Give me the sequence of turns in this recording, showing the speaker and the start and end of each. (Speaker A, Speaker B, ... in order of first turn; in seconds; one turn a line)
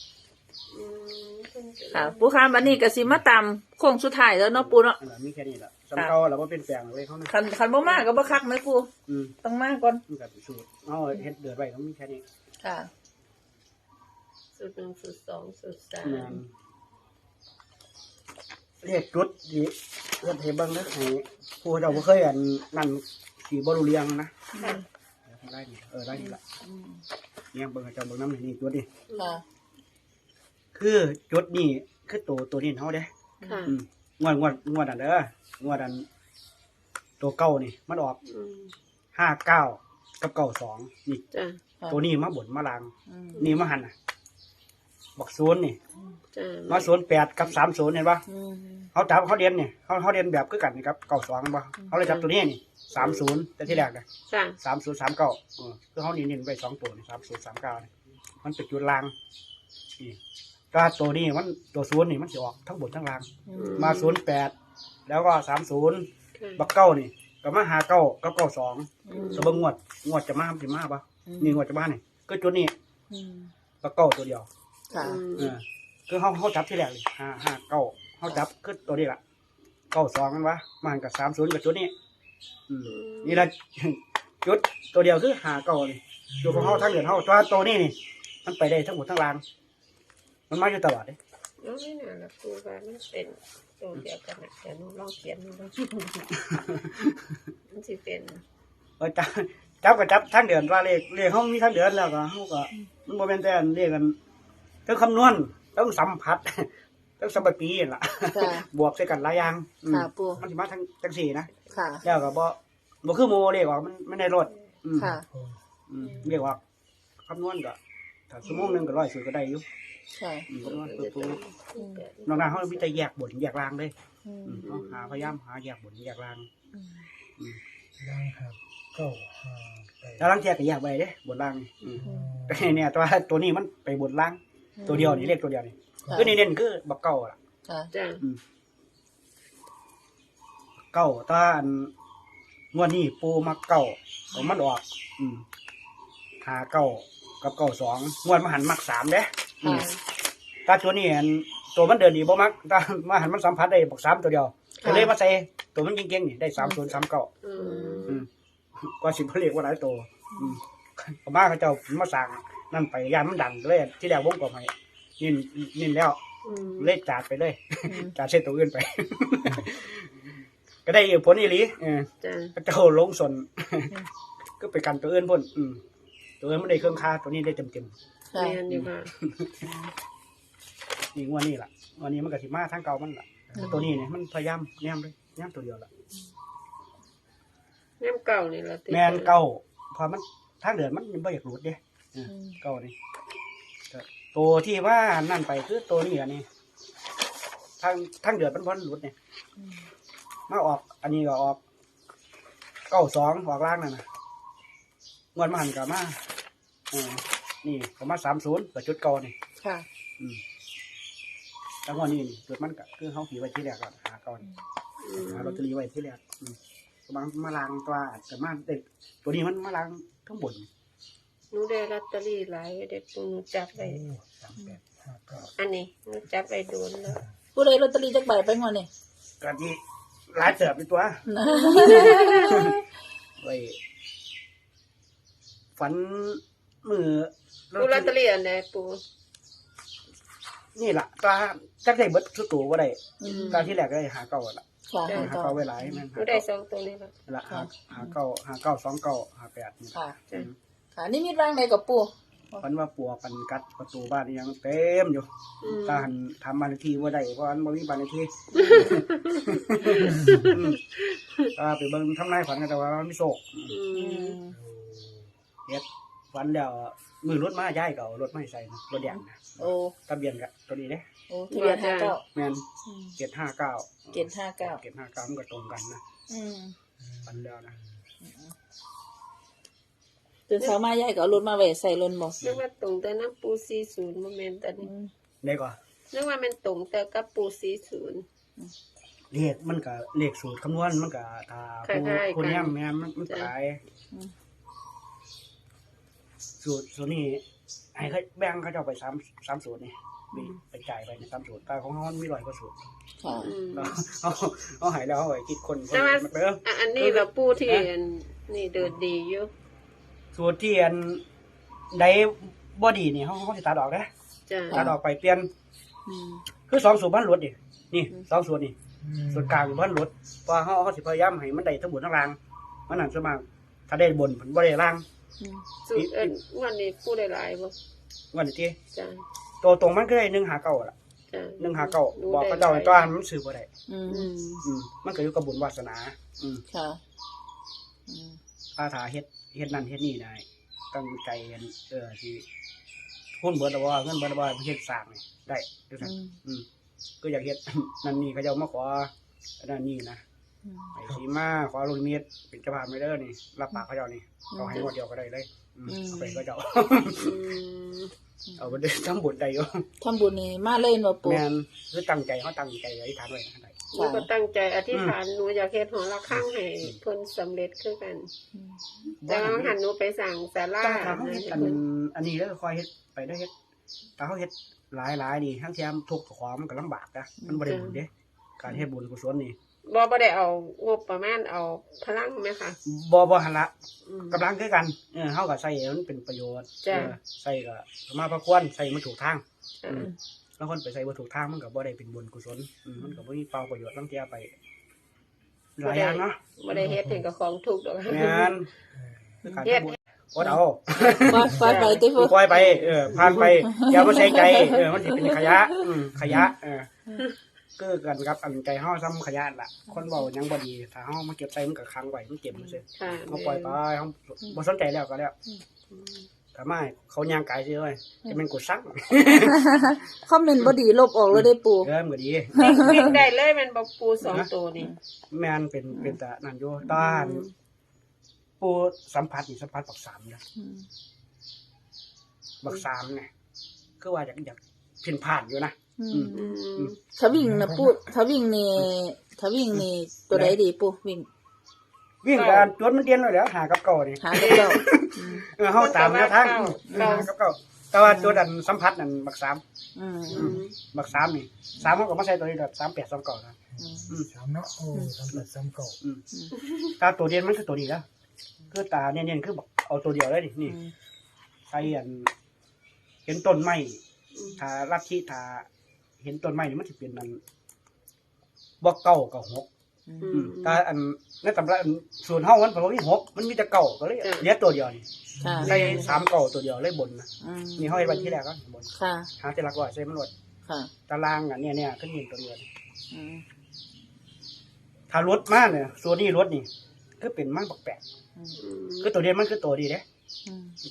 Speaker A: 0.7-2.3
Speaker B: 1.9-5.0
Speaker C: 4.5-7.3
Speaker B: 7.3-8.9
Speaker A: 7.8-8.3
Speaker C: 9.1-9.3
Speaker B: 9.4-10.0
Speaker C: 10.1-12.2
Speaker B: 12.6-12.9
Speaker A: 14.6-16.4
Speaker C: 16.0-16.5
Speaker C: 18.8-24.3
Speaker B: 24.5-24.8
Speaker C: 25.3-26.4
Speaker B: 26.2-27.0
Speaker C: 27.5-28.9
Speaker A: 29.1-29.3
Speaker B: 29.1-29.4
Speaker C: 30.7-33.1
Speaker B: 33.4-33.7
Speaker A: 33.4-33.7
Speaker C: 33.7-36.0
Speaker C: 37.2-38.2
Speaker A: 38.3-38.7
Speaker C: 39.1-41.2
Speaker A: 41.3-41.6
Speaker C: 41.9-43.9
Speaker B: 43.1-43.5
Speaker A: 43.3-43.6
Speaker C: 45.2-45.8
Speaker A: 46.3-46.9
Speaker C: 46.7-48.2
Speaker B: 48.3-48.9
Speaker C: 48.9-54.0
Speaker A: 52.0-52.3
Speaker A: 52.9-53.2
Speaker A: 54.3-54.6
Speaker C: 54.6-57.9
Speaker C: 58.4-59.1
Speaker C: 60.7-64.5
Speaker B: 63.5-63.9
Speaker A: 63.5-64.2
Speaker C: 65.1-72.7
Speaker A: 66.4-66.7
Speaker B: 69.1-69.6
Speaker A: 69.1-69.6
Speaker B: 71.3-71.6
Speaker B: 73.1-73.5
Speaker C: 73.8-74.5
Speaker A: 74.9-75.5
Speaker B: 74.9-75.2
Speaker C: 75.2-79.2
Speaker C: 79.9-81.9
Speaker C: 82.7-89.4
Speaker A: 82.9-83.5
Speaker A: 86.4-86.9
Speaker C: 90.5-91.2
Speaker A: 91.6-96.3
Speaker C: 96.5-96.9
Speaker A: 97.7-98.4
Speaker C: 99.0-104.2
Speaker C: 104.8-111.5
Speaker B: 108.3-108.7
Speaker B: 109.9-110.4
Speaker B: 111.7-112.0
Speaker C: 112.0-115.1
Speaker B: 115.0-115.3
Speaker C: 115.9-116.6
Speaker A: 116.0-116.3
Speaker C: 117.2-117.8
Speaker C: 118.3-119.6
Speaker B: 120.1-120.5
Speaker C: 120.5-121.4
Speaker A: 120.6-123.0
Speaker B: 121.8-122.0
Speaker C: 122.3-123.9
Speaker B: 124.2-124.7
Speaker C: 124.4-126.5
Speaker A: 124.6-125.1
Speaker B: 126.7-127.0
Speaker D: 128.0-130.2
Speaker C: 130.2-137.4
Speaker A: 131.8-132.2
Speaker D: 132.1-132.6
Speaker B: 134.8-135.3
Speaker A: 137.9-138.2
Speaker C: 140.9-141.9
Speaker C: 142.7-145.4
Speaker C: 146.4-149.9
Speaker B: 149.6-149.9
Speaker A: 149.7-149.9
Speaker C: 150.6-157.3
Speaker B: 154.8-155.1
Speaker A: 157.4-158.2
Speaker B: 157.6-158.1
Speaker C: 158.8-166.2
Speaker A: 166.4-166.9
Speaker C: 166.8-170.1
Speaker C: 170.8-173.9
Speaker A: 172.2-172.5
Speaker C: 174.6-175.8
Speaker C: 176.4-177.9
Speaker B: 178.3-178.6
Speaker A: 178.3-179.1
Speaker C: 178.7-179.6
Speaker B: 179.6-179.9
Speaker C: 181.1-185.9
Speaker A: 188.0-189.3
Speaker C: 188.9-192.9
Speaker B: 192.3-192.6
Speaker C: 193.9-196.4
Speaker C: 197.8-199.1
Speaker B: 199.6-199.8
Speaker C: 200.5-201.6
Speaker C: 202.9-204.0
Speaker C: 205.3-206.2
Speaker C: 206.9-209.3
Speaker B: 209.6-209.8
Speaker C: 211.8-214.4
Speaker A: 215.0-215.6
Speaker C: 215.2-216.6
Speaker C: 217.1-220.7
Speaker A: 221.5-224.1
Speaker D: 223.9-225.5
Speaker A: 225.6-227.2
Speaker B: 227.5-228.9
Speaker C: 229.4-229.8
Speaker C: 230.3-231.2
Speaker B: 231.2-232.7
Speaker A: 231.6-232.5
Speaker C: 232.0-232.7
Speaker C: 233.4-233.8
Speaker C: 235.8-238.1
Speaker A: 237.8-239.0
Speaker C: 240.7-243.0
Speaker B: 243.2-243.7
Speaker A: 243.2-243.8
Speaker C: 243.5-246.4
Speaker B: 244.9-246.0
Speaker A: 245.1-245.3
Speaker A: 246.1-247.1
Speaker C: 247.3-250.5
Speaker B: 247.5-248.1
Speaker B: 250.9-252.6
Speaker C: 252.6-259.0
Speaker A: 255.6-256.1
Speaker A: 258.5-261.0
Speaker B: 258.6-258.9
Speaker C: 259.6-260.8
Speaker C: 261.5-263.7
Speaker A: 263.7-264.4
Speaker B: 263.9-264.6
Speaker D: 264.7-265.2
Speaker C: 265.7-269.5
Speaker B: 269.0-269.9
Speaker C: 270.1-271.0
Speaker B: 271.3-272.2
Speaker A: 271.5-272.1
Speaker C: 272.3-272.6
Speaker B: 272.8-273.1
Speaker C: 273.2-276.0
Speaker B: 274.1-274.8
Speaker B: 276.3-276.7
Speaker C: 277.2-277.8
Speaker B: 278.2-278.5
Speaker B: 280.5-282.4
Speaker A: 282.4-284.9
Speaker B: 284.8-285.1
Speaker C: 285.4-285.8
Speaker A: 286.1-288.2
Speaker C: 289.3-293.8
Speaker A: 291.8-292.7
Speaker C: 296.6-297.4
Speaker C: 297.9-302.8
Speaker B: 303.2-303.5
Speaker A: 303.4-303.9
Speaker C: 303.7-307.9
Speaker A: 305.9-309.5
Speaker C: 310.3-311.2
Speaker C: 311.9-314.1
Speaker A: 314.5-314.8
Speaker C: 314.7-315.5
Speaker B: 316.1-316.4
Speaker C: 316.7-318.7
Speaker C: 319.3-322.4
Speaker C: 322.9-325.0
Speaker A: 325.9-327.7
Speaker C: 325.9-326.3
Speaker C: 328.3-328.8
Speaker A: 328.9-329.2
Speaker C: 329.6-330.9
Speaker A: 331.3-333.1
Speaker C: 331.6-333.7
Speaker B: 333.9-334.3
Speaker A: 334.1-334.6
Speaker C: 334.6-336.6
Speaker B: 336.7-337.0
Speaker B: 338.1-338.4
Speaker C: 338.8-342.4
Speaker C: 343.4-346.6
Speaker B: 346.0-346.4
Speaker C: 347.2-350.2
Speaker B: 350.6-350.9
Speaker C: 350.9-357.4
Speaker B: 354.5-354.9
Speaker B: 355.9-356.4
Speaker A: 357.2-358.1
Speaker C: 358.6-359.8
Speaker B: 360.0-361.4
Speaker C: 361.2-363.7
Speaker A: 363.9-368.3
Speaker B: 363.9-364.3
Speaker B: 368.5-368.8
Speaker C: 369.2-369.7
Speaker A: 369.2-371.8
Speaker C: 370.8-373.5
Speaker C: 374.2-379.6
Speaker A: 377.5-378.0
Speaker A: 379.9-382.8
Speaker C: 382.8-383.7
Speaker A: 384.1-384.4
Speaker C: 384.3-394.5
Speaker A: 386.8-387.1
Speaker A: 389.8-390.1
Speaker C: 395.8-396.4
Speaker A: 395.8-398.5
Speaker C: 398.1-398.7
Speaker C: 399.4-401.6
Speaker A: 399.6-399.9
Speaker A: 401.0-403.6
Speaker B: 401.2-402.4
Speaker C: 402.1-406.9
Speaker B: 403.6-406.4
Speaker C: 407.8-415.4
Speaker A: 412.9-413.8
Speaker A: 415.9-416.3
Speaker C: 416.5-419.6
Speaker B: 419.2-421.9
Speaker C: 421.3-423.2
Speaker B: 422.5-423.1
Speaker A: 422.6-424.9
Speaker C: 425.3-427.4
Speaker B: 425.9-426.2
Speaker A: 426.9-427.5
Speaker C: 428.6-430.4
Speaker B: 430.6-430.9
Speaker C: 432.6-433.3
Speaker C: 434.0-436.9
Speaker B: 436.0-436.6
Speaker A: 436.3-437.0
Speaker B: 437.1-441.3
Speaker C: 439.7-440.6
Speaker C: 442.2-449.6
Speaker A: 442.3-442.7
Speaker B: 444.2-445.5
Speaker A: 444.3-445.1
Speaker A: 445.7-447.3
Speaker B: 446.9-447.3
Speaker B: 448.0-448.4
Speaker B: 449.9-450.6
Speaker C: 450.3-453.6
Speaker A: 450.3-450.8
Speaker B: 453.8-454.1
Speaker D: 454.3-455.9
Speaker C: 457.0-458.0
Speaker C: 458.7-460.8
Speaker B: 460.7-460.9
Speaker C: 461.7-462.3
Speaker C: 463.2-464.0
Speaker A: 464.3-464.6
Speaker C: 464.6-465.7
Speaker C: 466.2-467.4
Speaker C: 468.8-469.7
Speaker B: 470.1-470.4
Speaker A: 470.2-470.8
Speaker C: 470.3-475.0
Speaker A: 474.2-474.5
Speaker B: 475.4-475.8
Speaker C: 475.6-480.3
Speaker A: 475.6-476.2
Speaker B: 477.4-478.0
Speaker A: 478.0-478.4
Speaker B: 478.9-479.3
Speaker B: 480.6-480.9
Speaker C: 481.1-482.6
Speaker B: 483.1-483.4
Speaker C: 485.1-486.7
Speaker C: 487.2-488.0
Speaker A: 488.6-489.1
Speaker C: 489.0-490.0
Speaker B: 490.4-490.8